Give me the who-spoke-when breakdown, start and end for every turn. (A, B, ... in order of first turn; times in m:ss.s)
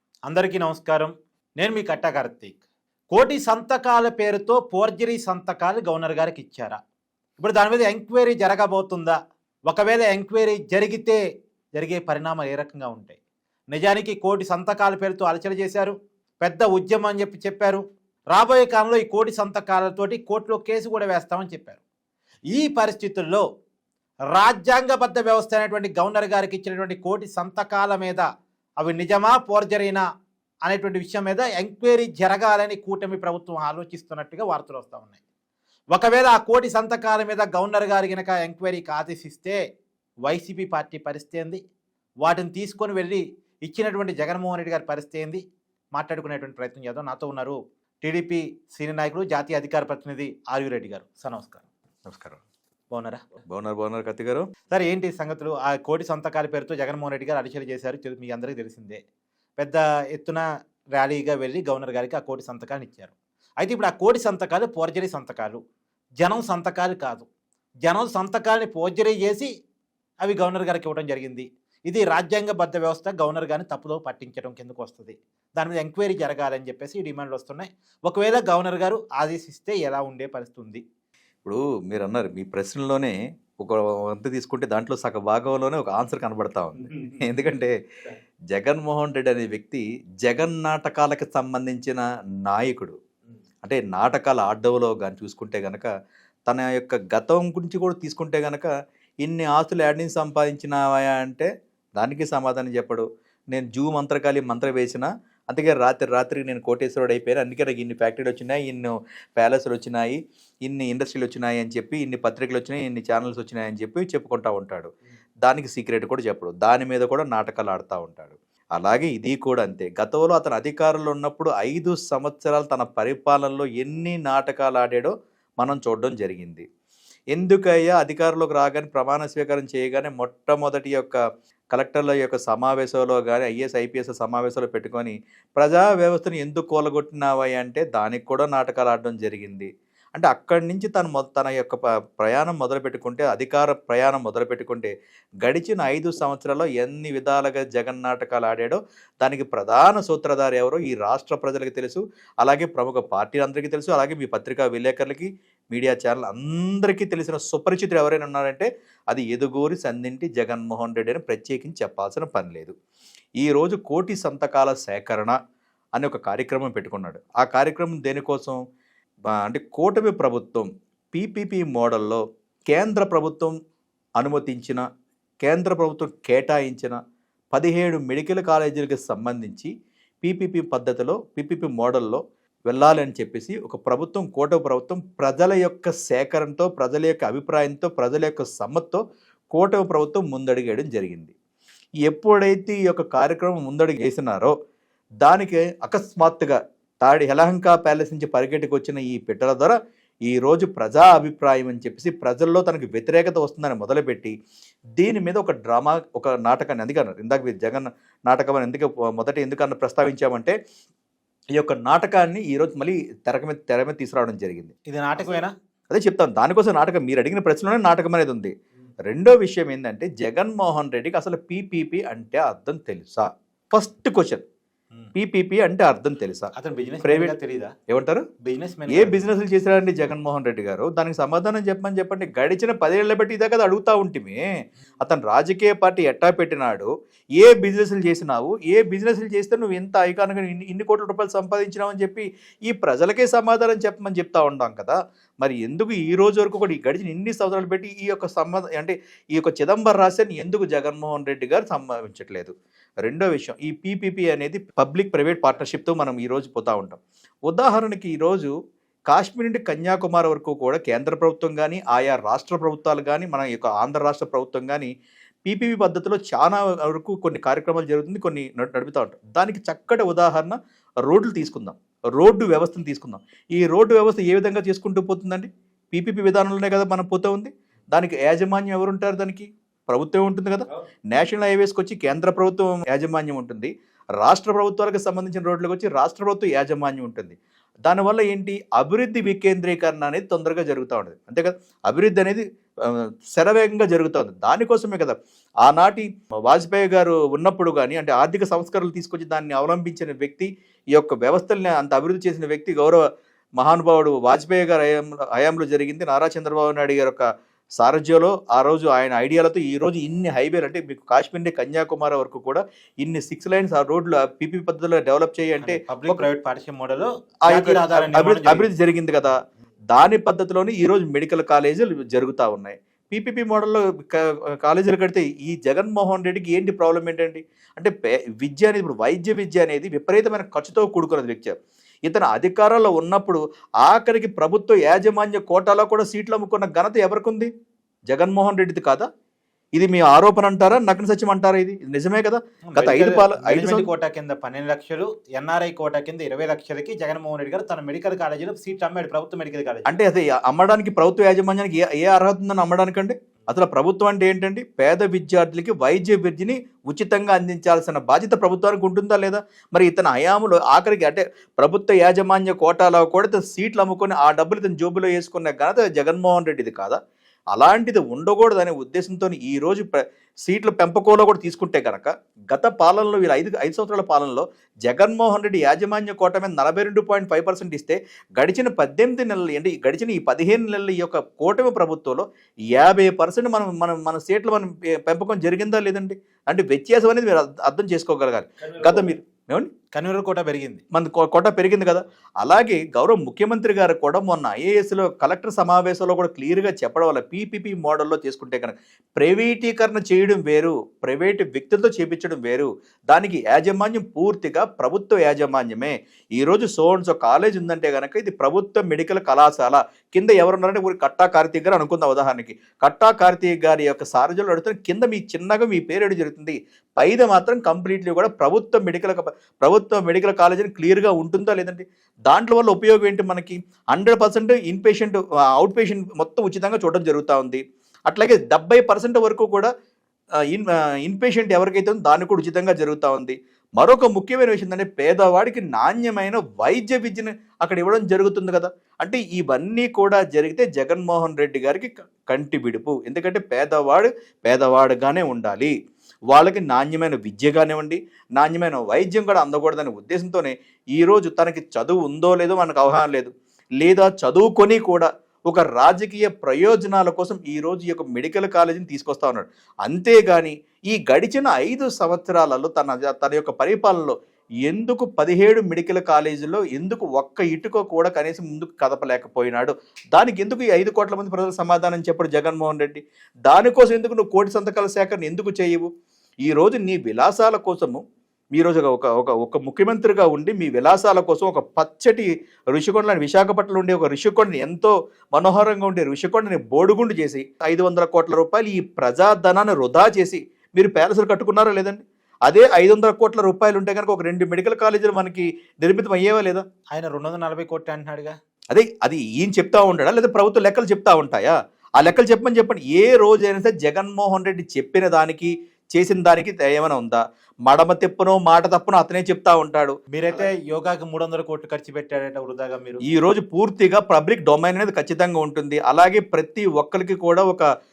0:00.3-0:02.6 A
0:03.1-0:06.8 A
0:07.4-0:11.2 A
0:11.8-0:13.2 A
0:13.7-0:21.8 A
0:22.5-0:23.4 A
0:24.3-0:28.2 A
0:28.8-0:30.0 A
0:30.6-0:35.2 A
0:35.9-0:39.6 A
0:40.2-0:41.6 A
0:42.2-0:45.4 A
0:45.9-0:51.6 A
0:52.1-0:52.4 B
0:52.9-0:53.2 A
0:53.5-0:54.5 B
0:54.7-0:59.0 A
0:59.6-1:05.6 A
1:06.2-1:07.2 A
1:07.8-1:09.5 A
1:10.2-1:20.8 A
1:21.4-1:27.7 B
1:28.5-1:32.9 B
1:33.6-1:35.9 B
1:36.5-1:38.7 B
1:39.2-1:54.9 B
1:55.4-2:06.6 B
2:07.3-2:11.2 B
2:11.7-2:24.9 B
2:25.4-2:42.7 B
2:43.4-2:45.4 B
2:45.9-2:48.6 B
2:49.3-2:53.5 B
2:54.2-2:54.8 B
2:55.4-2:57.0 B
2:57.5-2:59.7 B
3:00.2-3:09.0 B
3:09.5-3:11.3 B
3:12.0-3:14.5 B
3:15.2-3:19.8 B
3:20.3-3:24.3 B
3:25.0-3:30.5 B
3:31.6-3:34.7 B
3:34.9-3:35.5 A
3:35.9-3:38.5 B
3:39.1-3:44.4 B
3:45.1-3:46.5 B
3:46.5-3:47.7 A
3:47.0-3:47.3 B
3:47.9-3:48.2 B
3:48.4-3:49.2 A
3:48.9-3:54.4 B
3:55.0-4:12.5 B
4:13.0-4:18.5 B
4:19.1-4:24.9 B
4:25.4-5:03.0 B
5:03.6-5:07.2 B
5:07.8-5:16.2 B
5:15.6-5:18.7 A
5:17.4-5:19.3 B
5:19.9-5:31.5 B
5:32.0-5:37.5 B
5:38.1-5:39.0 B
5:39.7-5:43.9 B
5:42.7-5:50.0 A
5:49.8-6:07.0 B
6:07.5-6:29.7 B
6:28.6-6:29.1 A
6:29.9-6:30.8 A
6:30.9-7:09.7 B
7:10.5-7:25.7 B
7:26.3-7:44.1 B
7:44.6-7:55.9 B
7:56.4-7:58.0 B
7:58.5-8:16.6 B
8:16.9-8:18.3 A
8:18.7-8:30.4 B
8:30.1-8:33.0 A
8:33.1-8:37.7 B